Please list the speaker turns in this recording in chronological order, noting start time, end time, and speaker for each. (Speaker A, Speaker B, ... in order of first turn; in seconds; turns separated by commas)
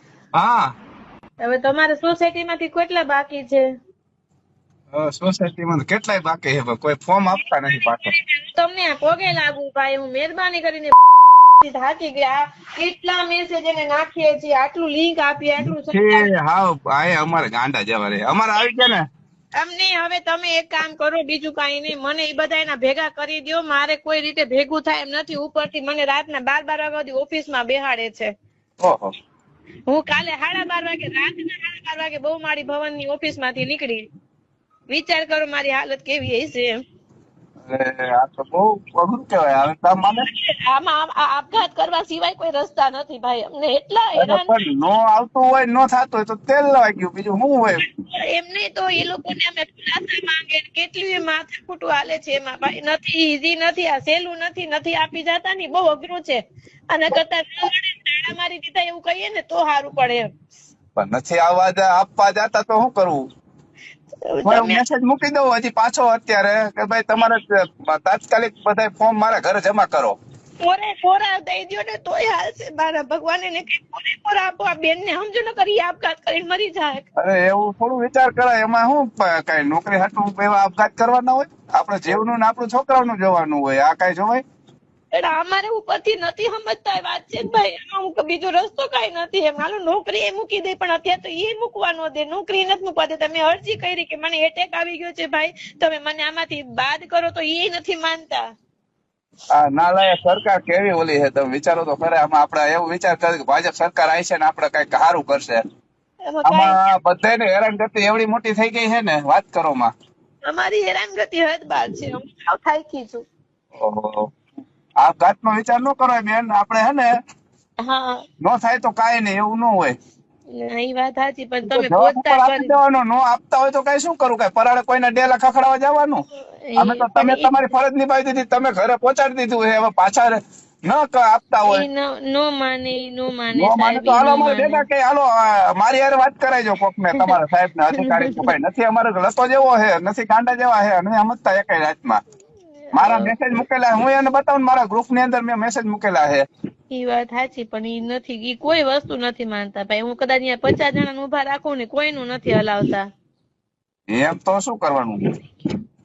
Speaker A: 0.3-0.7, Speaker B: 1.4-3.7, Speaker A: 4.9-8.1, Speaker B: 7.4-10.9, Speaker B: 11.6-16.3, Speaker A: 15.6-19.1, Speaker B: 19.6-28.3, Speaker A: 28.8-29.1, Speaker B: 29.9-34.0, Speaker B: 34.9-36.8, Speaker A: 37.7-40.2, Speaker B: 40.3-44.6, Speaker A: 44.2-47.8, Speaker B: 47.9-60.3, Speaker A: 61.0-63.2, Speaker B: 64.2-64.8, Speaker A: 64.4-70.2, Speaker B: 70.6-77.0, Speaker A: 77.2-84.4, Speaker B: 85.1-98.4, Speaker A: 99.5-105.6, Speaker B: 106.3-106.9, Speaker A: 106.5-109.9, Speaker B: 110.5-113.2, Speaker A: 113.8-114.3, Speaker A: 115.0-117.1, Speaker B: 117.8-118.2, Speaker A: 118.4-119.9, Speaker B: 120.5-122.7, Speaker A: 121.7-126.2, Speaker B: 126.6-127.5, Speaker A: 126.8-131.8, Speaker B: 131.6-134.8, Speaker A: 133.5-142.2, Speaker B: 138.0-138.5, Speaker B: 142.9-143.3, Speaker A: 142.9-146.4, Speaker B: 146.9-153.1, Speaker A: 154.1-155.3